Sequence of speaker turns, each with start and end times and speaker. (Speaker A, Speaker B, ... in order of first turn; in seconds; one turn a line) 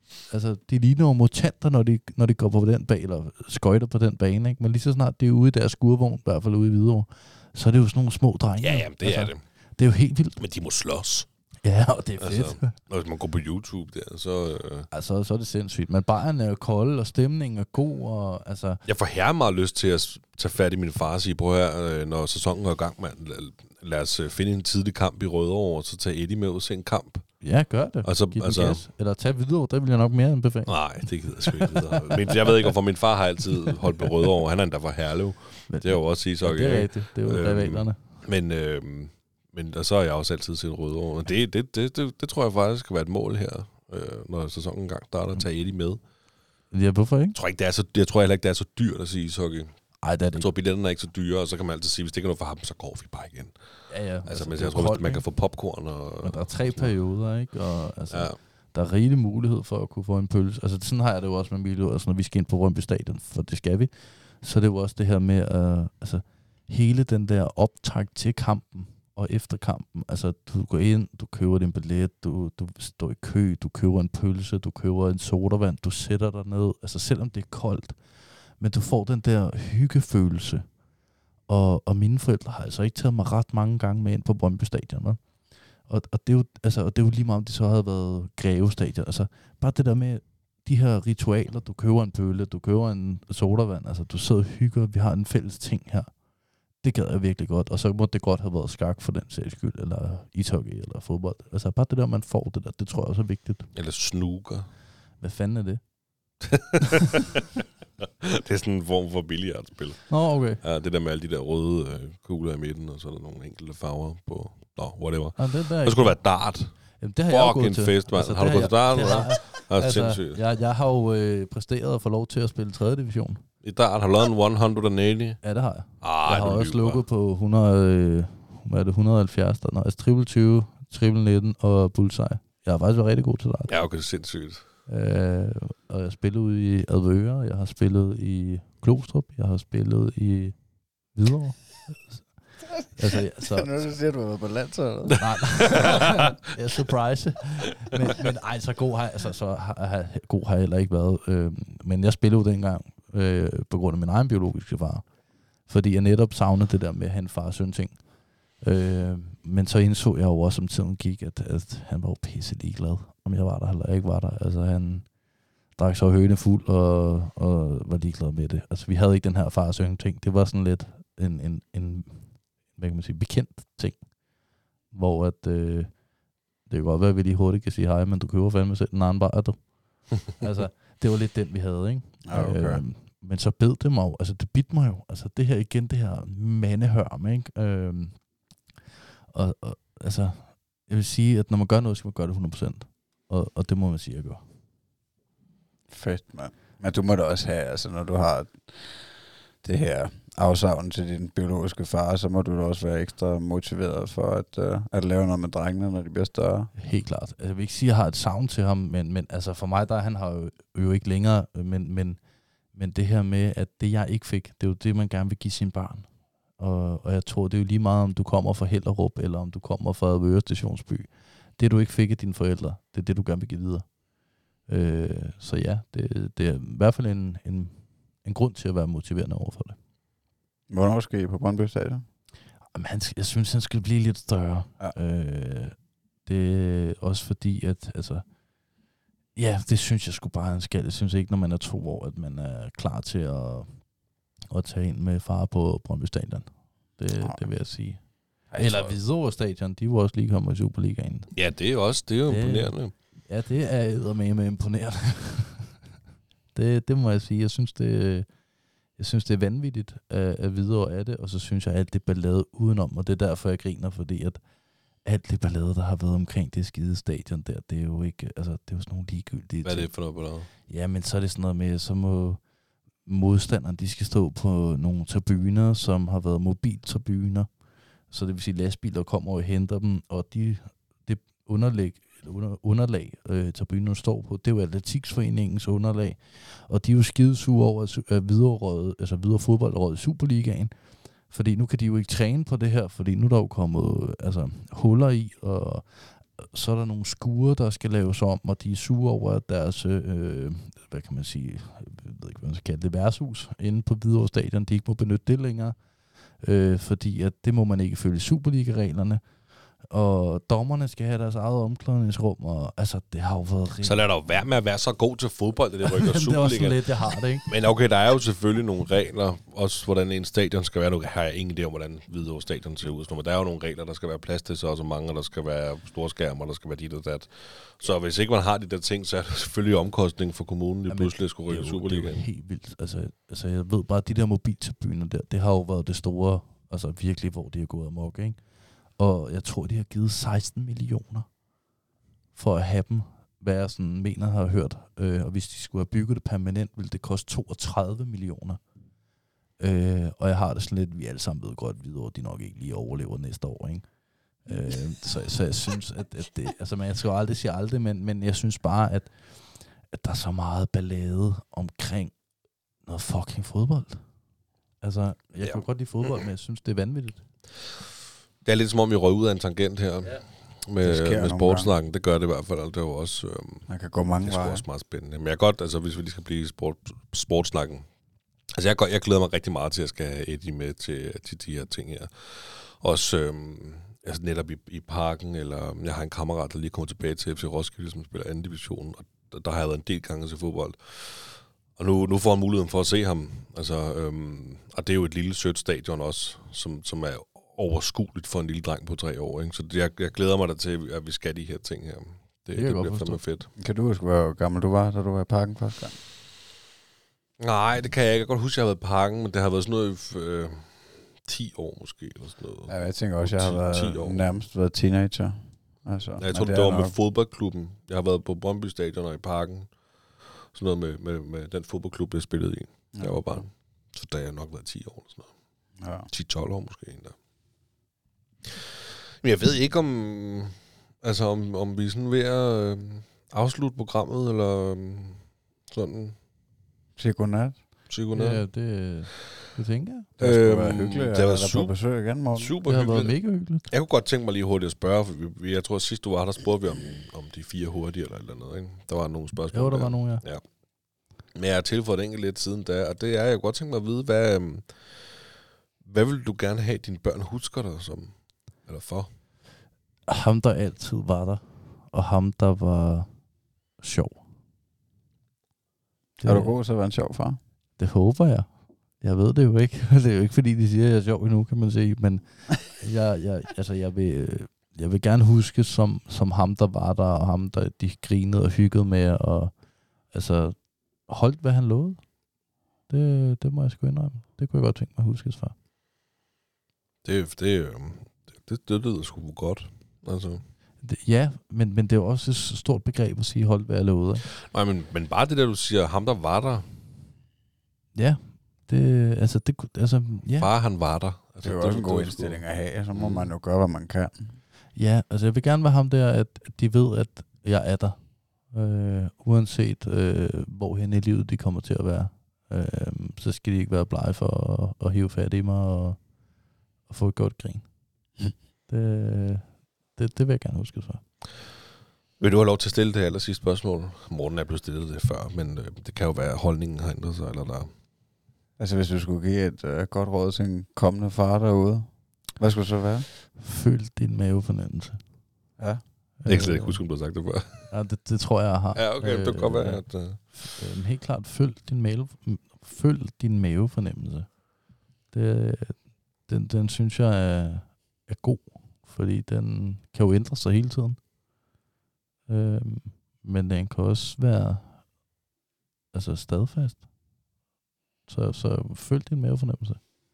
Speaker A: 0.3-10.4
Speaker B: 8.6-9.4
Speaker B: 10.4-11.3
Speaker A: 11.6-12.8
Speaker B: 12.2-14.9
Speaker A: 14.9-18.8
Speaker B: 18.9-27.5
Speaker A: 27.4-32.7
Speaker B: 28.0-28.9
Speaker B: 30.7-46.0
Speaker A: 35.7-38.0
Speaker A: 46.7-47.4
Speaker B: 47.4-56.9
Speaker A: 50.0-50.5
Speaker A: 53.9-55.2
Speaker A: 56.2-80.7
Speaker B: 58.1-58.4
Speaker A: 81.5-85.2
Speaker A: 85.8-96.2
Speaker A: 96.8-103.7
Speaker B: 103.7-104.7
Speaker A: 105.2-105.8
Speaker B: 106.5-107.4
Speaker B: 108.2-120.4
Speaker A: 110.1-110.6
Speaker A: 115.4-116.2
Speaker A: 117.0-123.5
Speaker B: 123.6-125.4
Speaker A: 125.4-133.7
Speaker B: 126.0-127.0
Speaker B: 133.7-134.7
Speaker A: 134.9-140.6
Speaker A: 141.1-143.7
Speaker C: 143.4-145.8
Speaker A: 145.2-165.2
Speaker A: 165.7-174.2
Speaker A: 174.9-176.0
Speaker A: 176.7-188.3
Speaker C: 182.3-182.8
Speaker A: 189.3-194.4
Speaker C: 195.9-206.7
Speaker A: 206.8-212.2
Speaker A: 212.7-223.9
Speaker A: 224.7-229.8
Speaker C: 230.7-232.1
Speaker A: 232.7-238.3
Speaker A: 239.3-243.9
Speaker A: 244.5-251.5
Speaker C: 247.2-247.6
Speaker C: 248.5-249.0
Speaker B: 251.3-252.9
Speaker A: 252.3-255.8
Speaker A: 256.5-258.3
Speaker A: 259.0-264.4
Speaker A: 265.0-272.4
Speaker B: 269.6-270.5
Speaker A: 273.1-277.5
Speaker A: 278.1-305.8
Speaker A: 306.3-314.0
Speaker B: 313.8-332.2
Speaker A: 315.9-317.5
Speaker A: 330.9-338.4
Speaker A: 339.0-341.3
Speaker A: 342.4-348.6
Speaker A: 349.6-353.9
Speaker A: 354.4-362.1
Speaker A: 362.8-364.1
Speaker A: 364.8-367.2
Speaker B: 368.4-377.9
Speaker C: 370.8-371.7
Speaker C: 373.7-374.6
Speaker B: 378.6-403.5
Speaker A: 402.5-403.2
Speaker C: 403.6-406.0
Speaker B: 407.4-414.2
Speaker C: 412.7-417.0
Speaker B: 416.2-425.4
Speaker C: 422.9-423.2
Speaker C: 425.8-426.1
Speaker B: 426.1-427.1
Speaker B: 429.2-436.2
Speaker C: 437.0-437.6
Speaker B: 437.9-438.4
Speaker A: 438.1-440.1
Speaker B: 440.2-450.5
Speaker C: 440.2-442.6
Speaker A: 442.6-443.6
Speaker A: 449.5-450.2
Speaker B: 451.3-455.3
Speaker B: 455.8-459.1
Speaker A: 460.1-463.1
Speaker A: 463.8-464.2
Speaker A: 466.2-466.5
Speaker C: 466.2-467.4
Speaker A: 467.8-479.6
Speaker A: 480.1-482.1
Speaker A: 482.9-485.6
Speaker B: 487.0-490.4
Speaker A: 490.8-494.3
Speaker B: 494.4-496.7
Speaker A: 497.9-500.5
Speaker B: 500.4-503.3
Speaker C: 501.4-504.4
Speaker A: 504.8-516.1
Speaker A: 516.9-517.7
Speaker A: 518.7-521.0
Speaker B: 522.2-527.7
Speaker C: 528.6-533.1
Speaker A: 533.4-535.0
Speaker A: 536.2-536.8
Speaker B: 536.3-537.7
Speaker A: 537.7-544.5
Speaker B: 538.8-540.2
Speaker A: 545.1-551.0
Speaker A: 552.3-554.9
Speaker A: 555.9-556.9
Speaker A: 558.1-559.8